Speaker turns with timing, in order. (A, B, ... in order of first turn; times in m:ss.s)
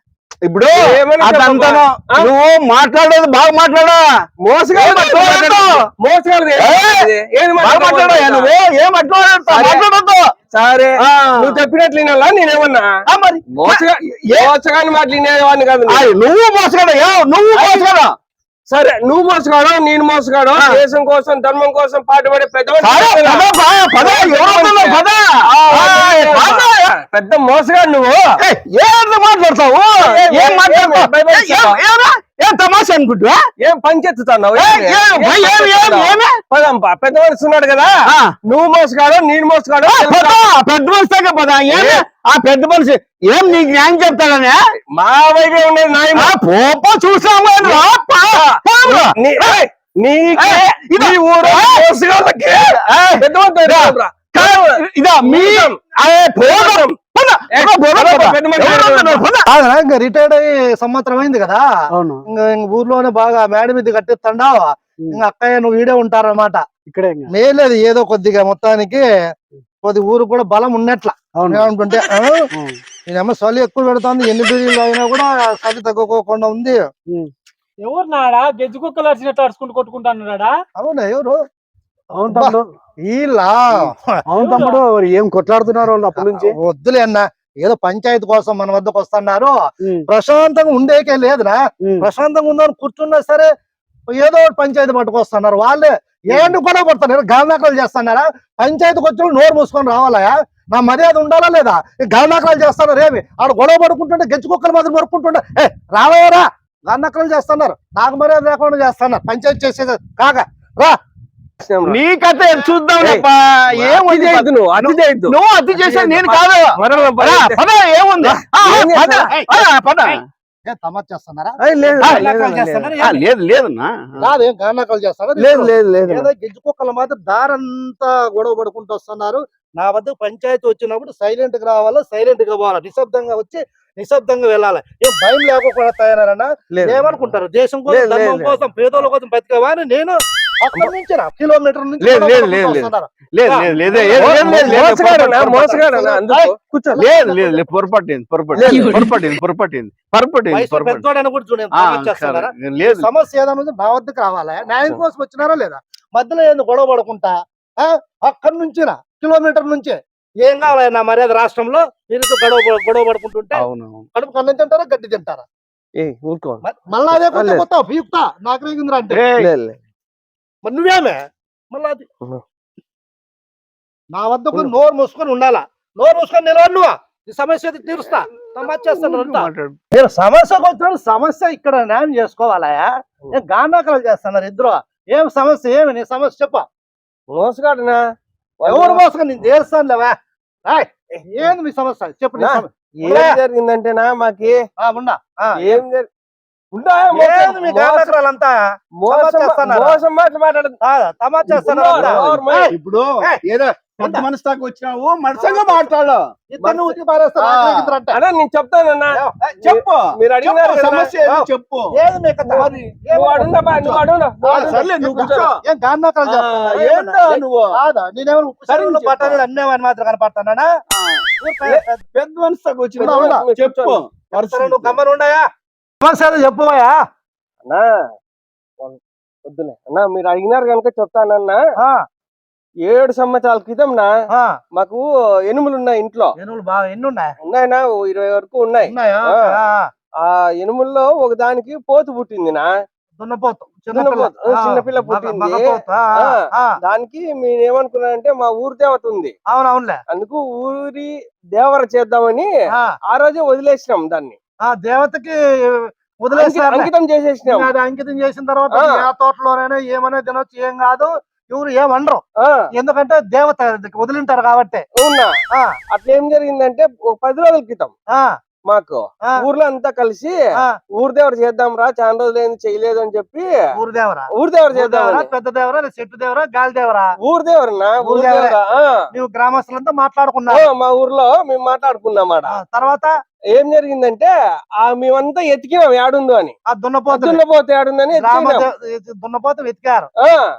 0:00.4-0:04.0 A
0:00.8-0:02.3 B
0:04.4-0:08.5 B
0:04.7-0:05.9 A
0:06.6-0:07.1 A
0:07.6-0:10.2 A
0:09.5-0:09.8 B
0:10.5-0:12.9 B
0:11.0-0:11.6 A
0:13.1-0:14.5 A
0:13.5-0:16.1 B
0:15.9-0:18.1 A
0:17.6-0:17.9 B
0:18.7-0:23.4 B
0:22.8-0:26.7 A
0:24.0-0:25.0 B
0:25.5-0:28.4 B
0:28.4-0:33.4 A
0:30.0-0:31.8 B
0:33.6-0:37.9 B
0:34.6-0:36.3 A
0:38.5-0:40.4 B
0:39.9-0:44.6 A
0:41.7-0:42.0 B
0:44.9-0:46.3 B
0:46.2-0:49.6 A
0:48.4-0:55.8 B
0:50.4-0:51.8 A
0:52.4-0:59.5 A
0:56.4-0:57.0 B
0:57.5-0:59.2 B
0:59.5-1:01.6 C
1:01.9-1:02.2 D
1:02.3-1:06.6 C
1:06.9-1:07.3 D
1:07.3-1:09.0 C
1:09.8-1:12.4 C
1:11.3-1:11.7 D
1:12.5-1:12.8 D
1:13.1-1:16.8 C
1:17.8-1:20.5 E
1:20.8-1:21.4 C
1:22.2-1:22.7 D
1:22.3-1:24.6 C
1:24.3-1:26.6 D
1:24.4-1:24.8 E
1:25.8-1:29.6 C
1:30.1-1:33.5 C
1:34.1-1:51.0 C
1:51.6-1:52.0 B
1:51.9-2:00.2 A
1:53.0-1:57.6 B
1:58.2-1:59.3 B
1:59.3-1:59.6 C
2:00.6-2:03.2 C
2:01.6-2:03.0 B
2:02.0-2:02.2 A
2:03.0-2:03.9 A
2:04.2-2:24.8 C
2:05.4-2:06.3 A
2:16.7-2:17.0 B
2:17.9-2:19.1 B
2:22.0-2:31.0 A
2:24.0-2:27.0 B
2:26.9-2:27.6 C
2:28.6-2:29.0 C
2:28.7-2:29.0 D
2:30.5-2:43.6 C
2:31.7-2:33.0 A
2:43.5-2:44.1 A
2:44.1-2:45.4 C
2:46.0-2:47.6 B
2:46.6-2:49.2 C
2:49.1-2:49.5 A
2:49.4-2:49.8 B
2:50.6-2:51.2 C
2:51.7-2:52.0 C
2:54.1-3:06.6 C
2:58.2-2:59.8 A
3:07.3-3:08.0 B
3:08.6-3:09.0 B
3:08.7-3:10.1 C
3:10.6-3:13.4 C
3:12.4-3:14.6 B
3:14.8-3:15.8 C
3:15.6-3:16.0 B
3:16.7-3:18.1 B
3:17.1-3:18.6 C
3:19.0-3:20.8 B
3:19.1-3:20.0 C
3:20.8-3:23.4 C
3:21.5-3:22.7 B
3:21.9-3:26.2 A
3:24.0-3:24.3 C
3:25.3-3:25.9 C
3:26.5-3:28.2 C
3:26.6-3:27.0 B
3:27.4-3:27.9 A
3:28.1-3:31.0 B
3:29.1-3:29.6 C
3:29.6-3:31.9 A
3:31.2-3:37.2 C
3:32.5-3:35.5 B
3:32.6-3:32.8 A
3:34.5-3:35.6 A
3:36.3-3:37.4 B
3:36.7-3:37.7 A
3:37.7-3:40.7 C
3:38.7-3:39.4 B
3:40.9-3:41.2 A
3:41.4-3:42.0 C
3:42.1-3:45.0 A
3:43.0-3:44.0 B
3:43.0-3:43.4 C
3:44.3-3:45.4 C
3:46.0-3:47.0 C
3:48.8-3:51.6 B
3:52.8-3:54.1 B
3:54.7-3:56.3 B
3:56.4-3:57.3 C
3:57.4-3:59.4 B
3:58.9-3:59.9 C
4:00.2-4:02.7 B
4:03.2-4:06.7 C
4:03.9-4:05.7 B
4:06.8-4:09.3 B
4:09.5-4:10.0 C
4:10.1-4:12.5 B
4:13.1-4:14.4 B
4:14.6-4:16.9 C
4:16.4-4:17.7 B
4:17.4-4:22.2 C
4:18.7-4:19.0 B
4:22.8-4:24.8 C
4:25.0-4:25.3 B
4:25.9-4:27.9 B
4:28.7-4:30.3 B
4:31.0-4:33.5 B
4:33.8-4:37.1 C
4:34.4-4:35.3 B
4:37.2-4:38.8 B
4:38.0-4:38.6 C
4:39.1-4:40.6 C
4:40.5-4:42.5 B
4:42.5-4:43.1 C
4:43.5-4:46.5 B
4:46.7-4:47.4 C
4:47.1-4:48.6 B
4:48.1-4:50.1 C